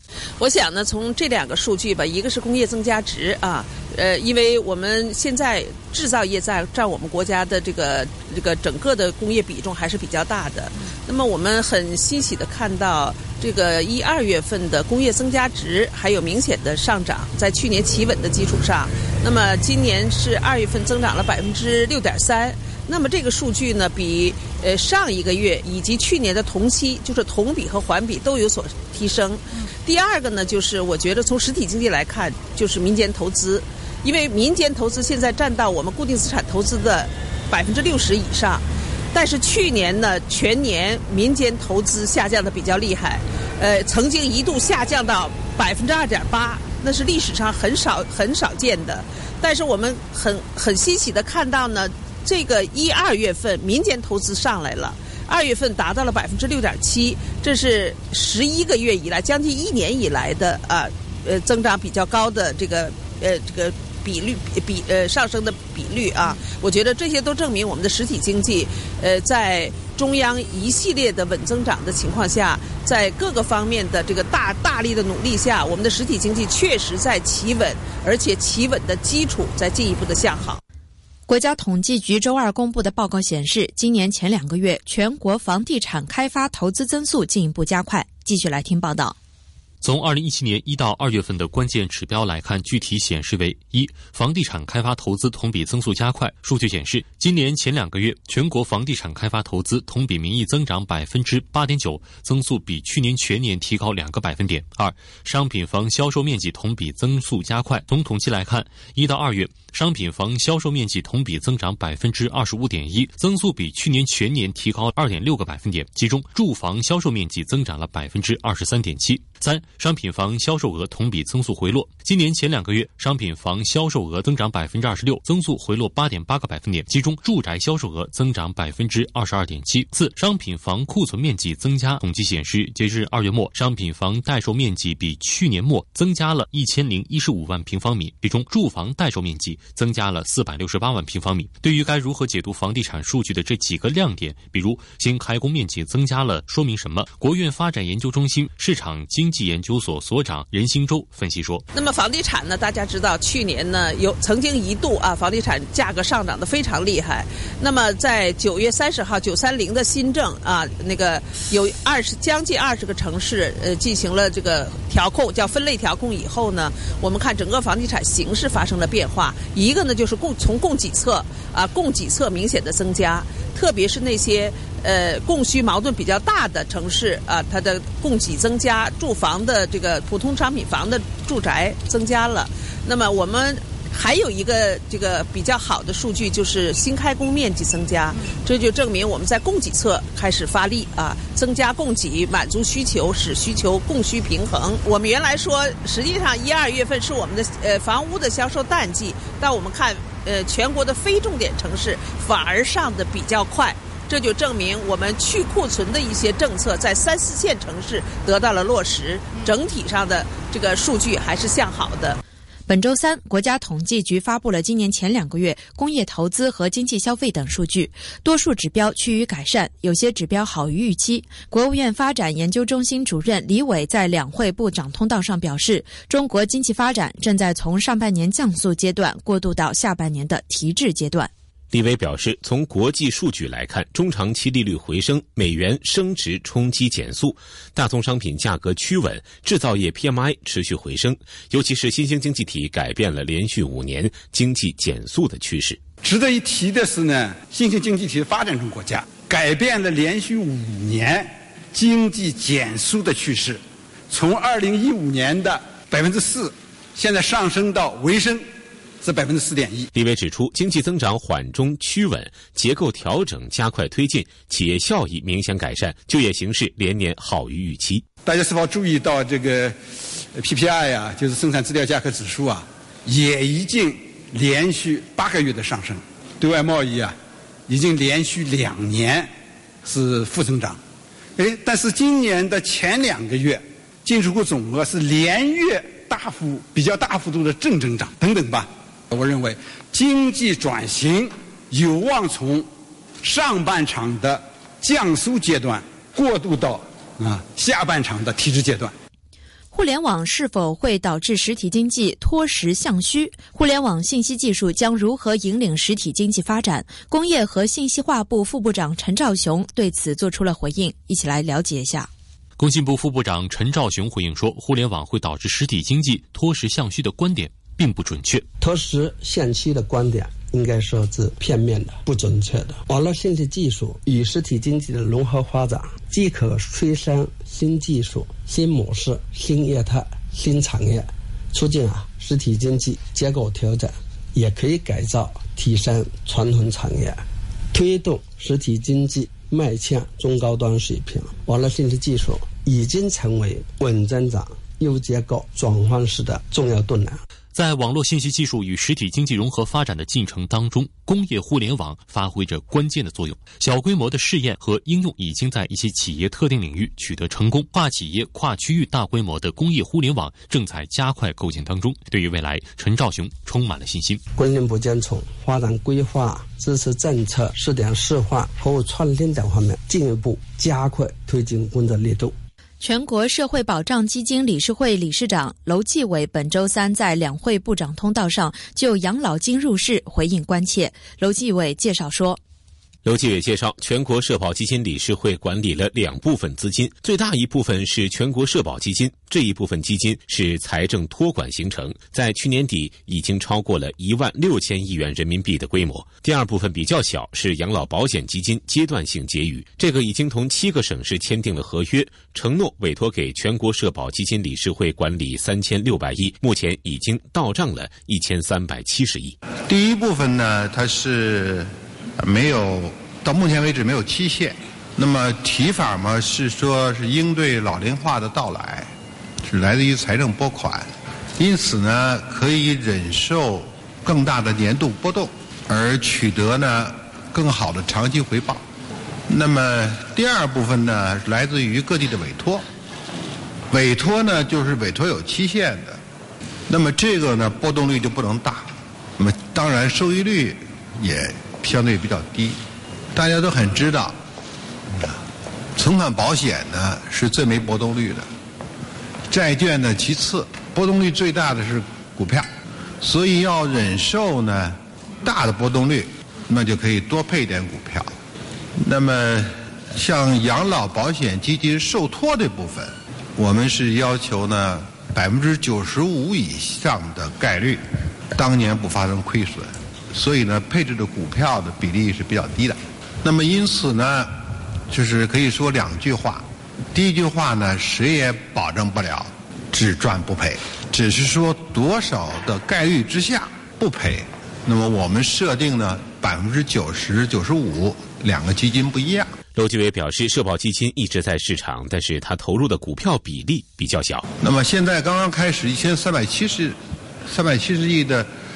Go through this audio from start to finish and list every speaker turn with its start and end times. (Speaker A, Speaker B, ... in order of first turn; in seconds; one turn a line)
Speaker A: 0.4-80.6
Speaker B: 81.3-89.2
Speaker C: 89.8-151.6
Speaker A: 151.7-212.2
Speaker B: 212.7-231.3
Speaker D: 231.7-245.8
Speaker E: 246.0-258.4
Speaker E: 259.0-259.9
Speaker D: 259.9-268.0
Speaker E: 268.2-277.2
Speaker E: 277.7-279.3
Speaker E: 279.8-280.8
Speaker E: 281.4-292.7
Speaker E: 293.2-298.9
Speaker B: 299.7-312.1
Speaker C: 312.6-318.4
Speaker F: 318.6-347.2
Speaker C: 347.5-364.2
Speaker F: 364.3-372.4
Speaker B: 372.8-382.4
Speaker D: 383.0-409.4
Speaker G: 409.7-418.9
Speaker G: 419.4-428.6
Speaker G: 429.3-432.6
Speaker G: 433.7-436.0
Speaker G: 436.7-442.6
Speaker G: 443.1-444.2
Speaker G: 445.8-448.3
Speaker G: 449.3-452.5
Speaker G: 453.0-458.1
Speaker G: 458.8-489.3
Speaker D: 489.5-494.2
Speaker G: 494.4-498.3